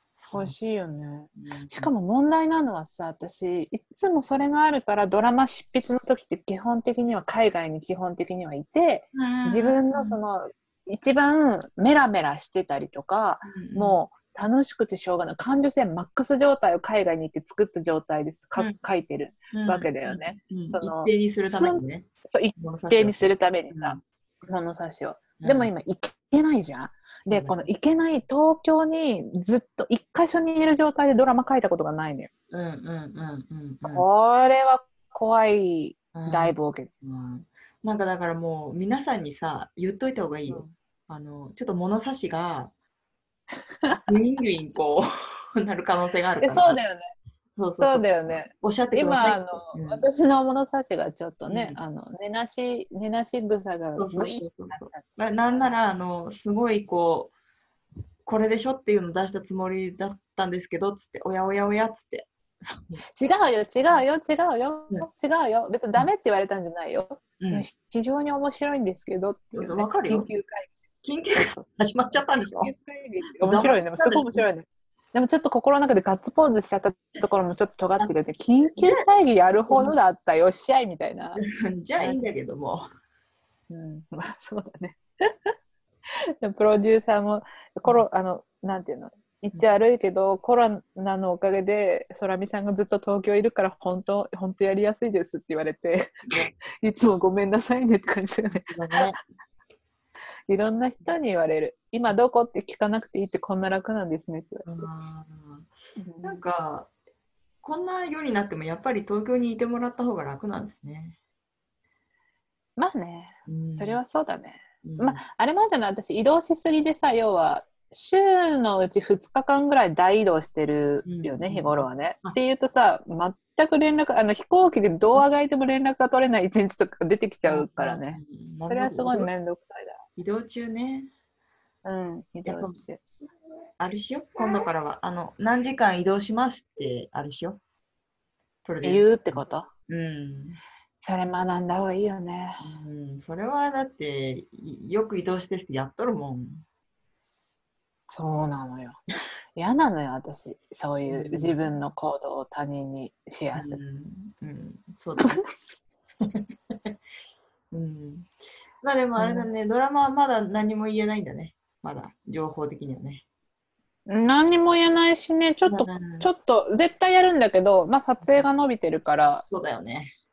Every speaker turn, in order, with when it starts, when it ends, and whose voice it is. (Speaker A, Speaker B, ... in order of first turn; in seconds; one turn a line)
Speaker A: 0.2-0.5
Speaker B: 0.3-32.3
Speaker A: 1.4-1.9
Speaker A: 9.1-10.2
Speaker A: 13.4-14.0
Speaker A: 19.5-24.0
Speaker A: 25.4-25.7
Speaker A: 27.3-27.7
Speaker A: 32.5-34.0
Speaker B: 33.8-37.0
Speaker A: 36.1-42.7
Speaker A: 43.9-46.8
Speaker B: 46.4-47.1
Speaker A: 47.6-50.0
Speaker B: 47.8-55.7
Speaker A: 51.5-51.8
Speaker A: 54.0-57.3
Speaker A: 58.2-63.0
Speaker B: 63.1-70.7
Speaker A: 67.4-67.7
Speaker A: 69.5-70.3
Speaker A: 71.0-72.7
Speaker B: 71.3-71.7
Speaker B: 72.6-81.4
Speaker A: 73.4-74.4
Speaker A: 78.8-79.1
Speaker A: 81.4-82.8
Speaker B: 83.7-85.5
Speaker B: 86.4-99.2
Speaker A: 98.7-99.2
Speaker B: 100.5-104.8
Speaker A: 104.7-105.7
Speaker B: 106.0-106.4
Speaker A: 106.2-106.9
Speaker A: 107.6-111.2
Speaker B: 112.8-130.0
Speaker A: 113.5-114.0
Speaker A: 114.8-115.2
Speaker A: 121.0-122.4
Speaker A: 127.5-129.3
Speaker A: 130.2-131.1
Speaker B: 131.8-133.0
Speaker A: 132.4-132.8
Speaker A: 133.8-137.6
Speaker A: 138.6-140.6
Speaker B: 138.8-139.7
Speaker B: 141.0-142.7
Speaker A: 142.6-146.6
Speaker B: 148.1-149.0
Speaker B: 149.6-153.8
Speaker A: 151.1-151.6
Speaker A: 153.5-155.4
Speaker A: 156.2-156.9
Speaker A: 157.7-158.3
Speaker A: 158.8-163.2
Speaker B: 159.2-159.5
Speaker B: 164.1-169.4
Speaker A: 165.7-166.3
Speaker A: 168.2-168.5
Speaker A: 169.5-170.1